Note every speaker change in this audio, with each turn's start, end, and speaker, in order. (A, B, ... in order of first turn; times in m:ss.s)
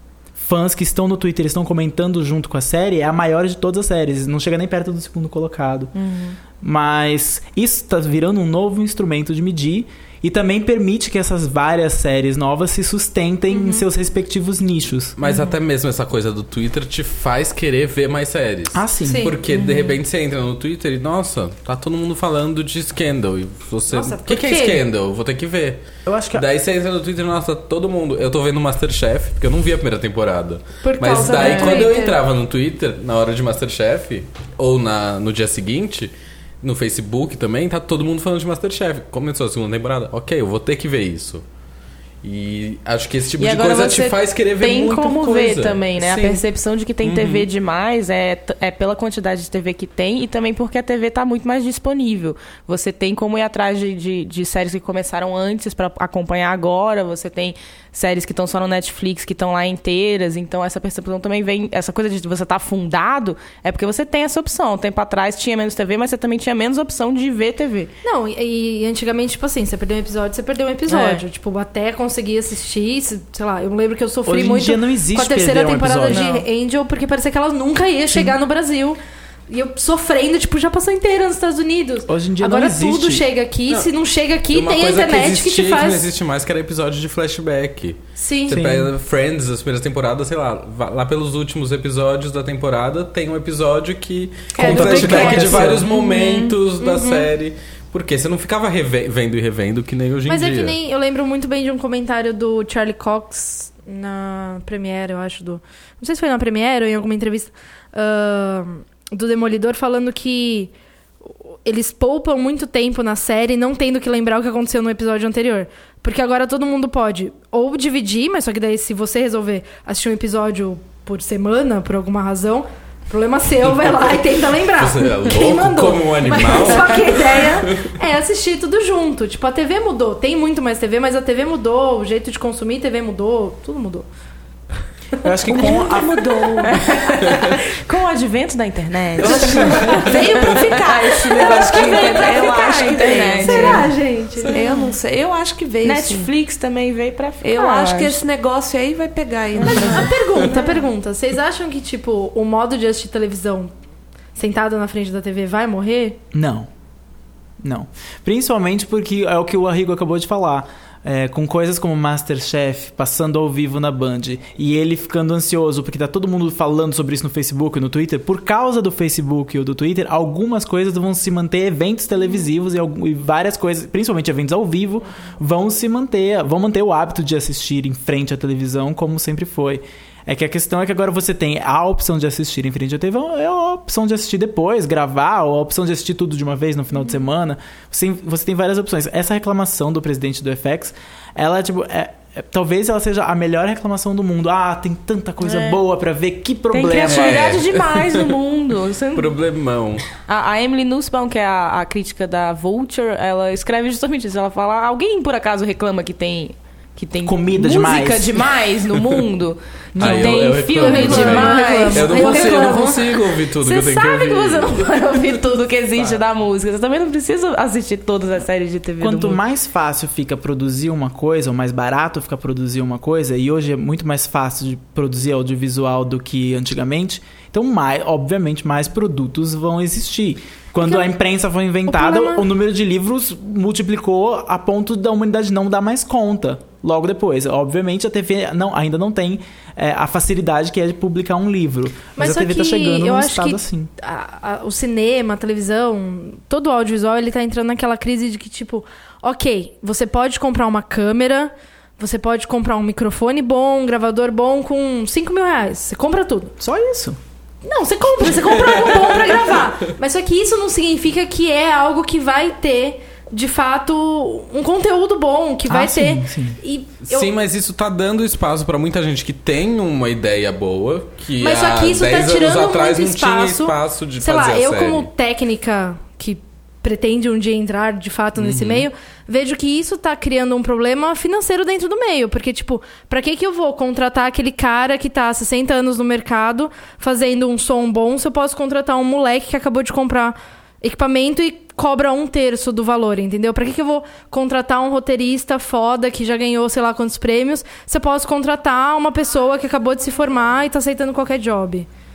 0:00.4-0:05.9 A
0:05.9-0:06.4 B
0:06.6-0:15.1 A
0:13.5-0:13.8 C
0:15.2-0:41.4 D
0:18.7-0:19.3 A
0:19.0-0:19.4 C
0:19.5-0:20.0 B
0:23.9-0:24.8 C
0:26.0-0:26.4 A
0:30.8-0:31.8 C
0:31.0-0:32.2 E
0:31.3-0:31.9 B
0:42.2-0:46.4 D
0:43.4-1:07.9 B
0:47.0-0:47.5 D
1:08.0-1:26.0 C
1:10.9-1:11.2 B
1:14.2-1:16.2 A
1:16.1-1:16.4 B
1:18.1-1:18.4 A
1:22.1-1:23.3 A
1:23.7-1:23.9 D
1:24.5-1:40.8 D
1:28.2-1:28.6 C
1:28.5-1:28.9 A
1:34.5-1:37.3 C
1:34.6-1:35.9 A
1:40.2-1:50.7 C
1:51.4-2:14.0 C
2:04.7-2:08.0 D
2:15.2-2:16.1 A
2:15.5-2:17.0 E
2:16.6-2:23.9 B
2:19.2-2:26.3 E
2:19.9-2:20.2 C
2:23.4-2:24.6 C
2:24.4-2:24.9 B
2:25.8-2:28.2 B
2:27.4-2:30.1 E
2:29.6-2:30.8 B
2:29.6-2:33.7 C
2:34.4-2:36.2 C
2:36.3-2:36.7 A
2:37.6-3:17.5 A
3:15.4-3:15.8 B
3:16.7-3:19.4 B
3:17.0-3:18.3 D
3:19.1-3:20.0 D
3:20.2-3:33.0 B
3:27.2-3:28.4 A
3:30.0-3:30.4 A
3:30.0-3:35.0 D
3:30.8-3:33.0 C
3:33.6-3:39.4 B
3:39.0-4:03.9 A
3:51.9-3:52.4 C
4:02.2-4:16.5 C
4:16.6-4:17.2 A
4:17.6-4:27.3 C
4:18.2-4:19.7 D
4:25.7-4:26.6 A
4:27.0-4:35.1 D
4:31.4-5:01.9 C
4:38.3-4:38.9 D